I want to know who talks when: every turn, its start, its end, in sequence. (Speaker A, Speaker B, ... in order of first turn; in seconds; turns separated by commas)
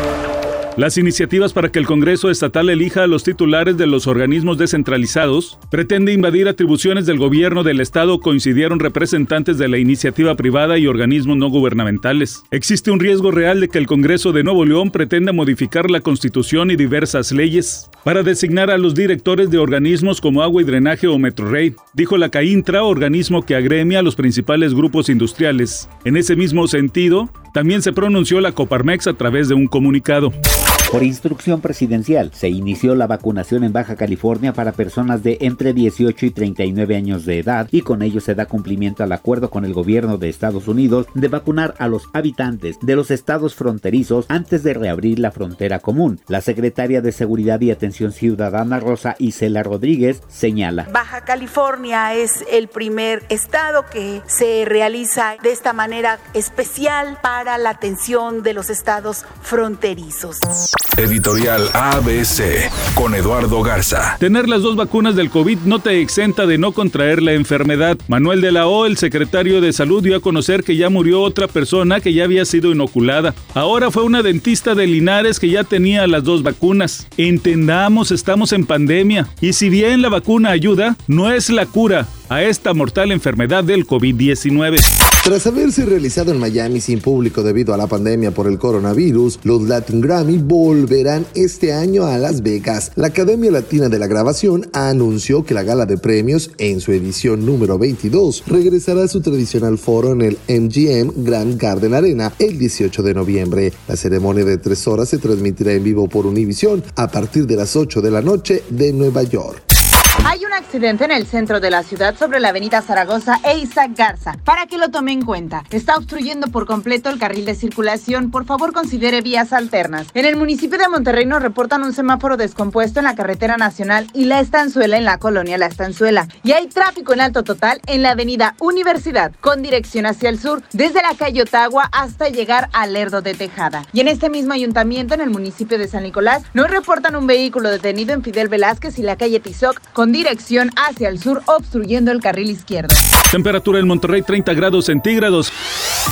Speaker A: 0.8-30.3, Speaker B: 30.9-50.8, Speaker C: 50.9-60.4, Speaker D: 61.0-64.2, Speaker A: 64.2-84.9, Speaker E: 85.2-109.6, Speaker F: 110.2-143.0, Speaker A: 143.3-145.5